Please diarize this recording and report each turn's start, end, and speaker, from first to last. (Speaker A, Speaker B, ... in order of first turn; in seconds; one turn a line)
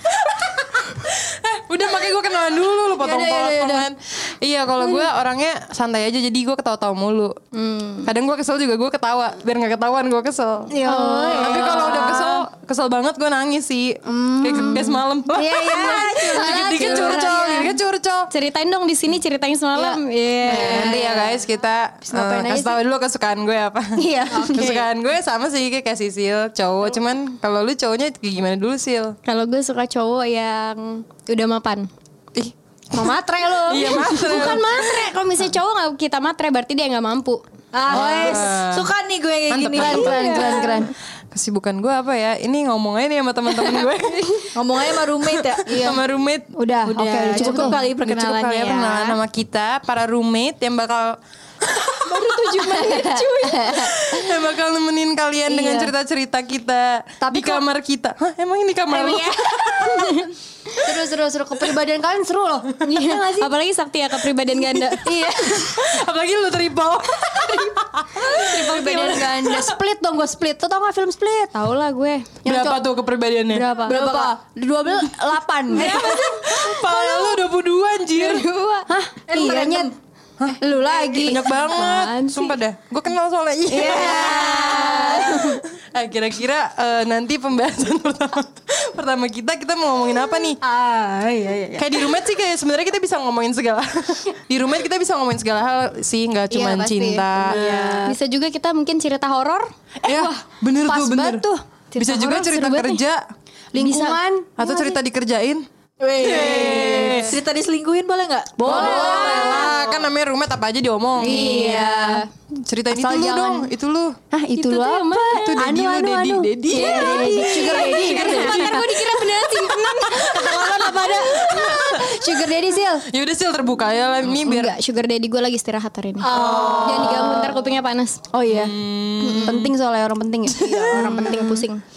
Speaker A: 0.2-7.3
Speaker B: 3.1-3.6
Speaker C: 3.1-3.9
Speaker D: 7.6-8.0
Speaker A: 8.0-18.3
Speaker B: 10.7-12.4
Speaker D: 10.9-11.5
Speaker B: 14.1-17.8
Speaker C: 15.8-17.5
Speaker D: 18.3-20.5
Speaker B: 19.7-21.4
Speaker A: 20.4-29.2
Speaker B: 22.1-22.8
Speaker B: 24.0-24.8
Speaker C: 24.3-24.8
Speaker D: 29.2-31.9
Speaker A: 32.3-35.1
Speaker B: 32.9-34.5
Speaker D: 34.5-37.4
Speaker C: 37.7-40.8
Speaker A: 37.9-38.9
Speaker B: 37.9-38.5
Speaker A: 39.5-44.5
Speaker B: 39.7-40.9
Speaker C: 44.5-45.8
Speaker A: 45.3-46.5
Speaker B: 45.6-46.0
Speaker B: 46.5-47.8
Speaker C: 46.8-49.2
Speaker A: 47.3-60.2
Speaker B: 52.1-54.3
Speaker D: 52.4-53.0
Speaker B: 55.5-55.9
Speaker B: 57.2-57.6
Speaker B: 58.9-60.2
Speaker B: 60.8-63.5
Speaker D: 62.9-65.0
Speaker A: 64.5-69.8
Speaker B: 65.0-65.9
Speaker B: 68.2-71.6
Speaker D: 71.5-72.3
Speaker B: 72.4-72.8
Speaker A: 72.4-73.7
Speaker B: 73.5-76.2
Speaker C: 73.7-74.4
Speaker C: 75.7-76.3
Speaker A: 75.7-78.5
Speaker B: 76.7-77.2
Speaker D: 78.3-78.9
Speaker B: 78.9-79.9
Speaker C: 79.3-79.9
Speaker A: 80.4-90.6
Speaker B: 80.6-81.9
Speaker D: 81.7-82.5
Speaker B: 83.7-85.5
Speaker C: 83.8-85.3
Speaker C: 90.6-92.1
Speaker A: 91.8-98.0
Speaker B: 96.5-97.8
Speaker C: 97.4-98.2
Speaker D: 98.1-99.7
Speaker A: 100.0-103.2
Speaker B: 100.0-103.0
Speaker B: 103.7-105.0
Speaker D: 103.9-104.2
Speaker A: 104.6-105.6
Speaker C: 106.0-110.1
Speaker A: 106.2-107.3
Speaker B: 106.7-107.2
Speaker B: 108.6-109.8
Speaker A: 108.6-111.6
Speaker B: 111.2-112.3
Speaker C: 111.3-112.0
Speaker A: 112.5-114.2
Speaker B: 112.9-113.7
Speaker B: 114.3-123.0
Speaker D: 114.5-115.3
Speaker A: 115.3-122.3
Speaker C: 116.8-118.6
Speaker D: 118.8-120.1
Speaker A: 123.0-124.8
Speaker B: 124.4-124.7
Speaker D: 124.7-126.2
Speaker C: 126.2-127.5
Speaker A: 126.3-127.5
Speaker B: 126.5-127.8
Speaker D: 127.1-128.2
Speaker B: 128.3-131.7
Speaker A: 128.5-129.7
Speaker A: 130.4-131.6
Speaker D: 131.0-131.8